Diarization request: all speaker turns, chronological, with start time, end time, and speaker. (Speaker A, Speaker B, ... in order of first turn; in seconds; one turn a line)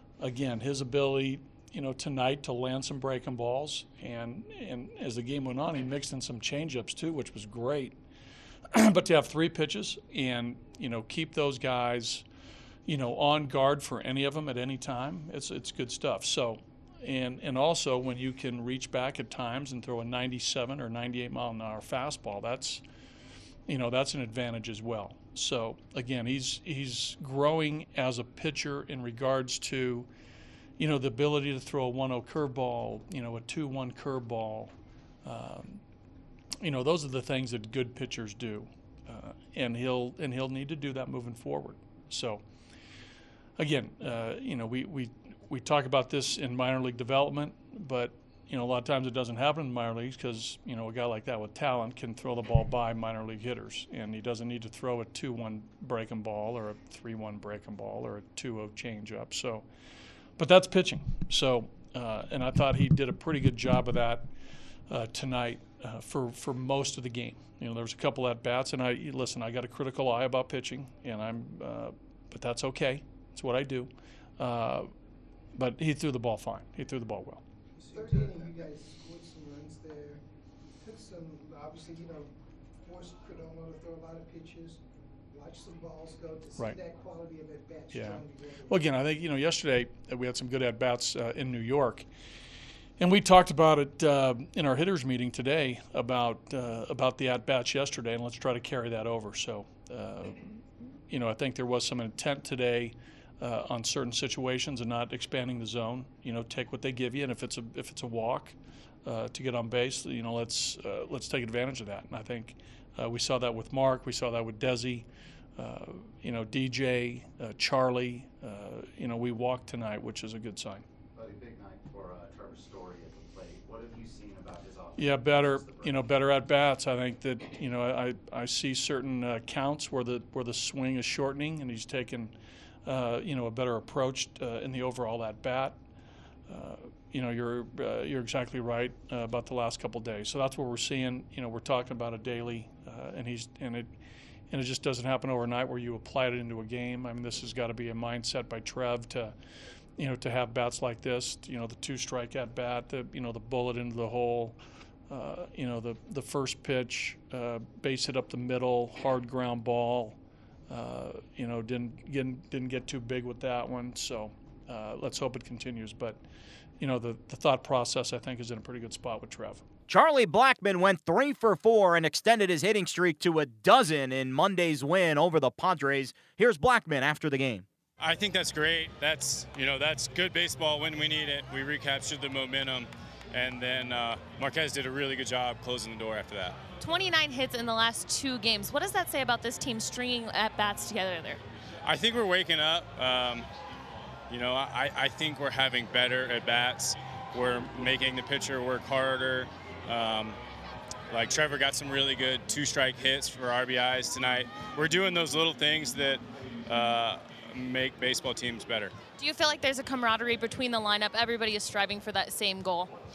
Speaker A: 0.2-8.0
Speaker A: 8.7-12.2
Speaker A: 12.9-22.8
Speaker A: 23.7-30.1
Speaker A: 30.8-34.7
Speaker A: 35.2-35.8
Speaker A: 36.6-42.4
Speaker A: 43.6-59.7
Speaker A: 60.4-64.3
Speaker A: 64.9-74.9
Speaker A: 75.5-77.4
Speaker B: 77.8-80.2
Speaker B: 80.8-82.3
Speaker B: 82.8-84.8
Speaker B: 85.3-88.8
Speaker A: 87.9-92.1
Speaker A: 93.0-115.1
Speaker A: 115.6-120.8
Speaker C: 121.2-126.2
Speaker A: 125.0-132.3
Speaker A: 132.9-135.8
Speaker A: 136.5-143.9
Speaker A: 144.5-149.3
Speaker A: 150.0-154.6
Speaker A: 155.1-160.2
Speaker A: 160.7-166.2
Speaker A: 166.8-169.7
Speaker D: 169.9-177.7
Speaker E: 178.0-186.6
Speaker F: 186.8-191.4
Speaker E: 191.8-193.5
Speaker E: 194.3-200.4
Speaker E: 201.1-209.0
Speaker F: 209.2-212.9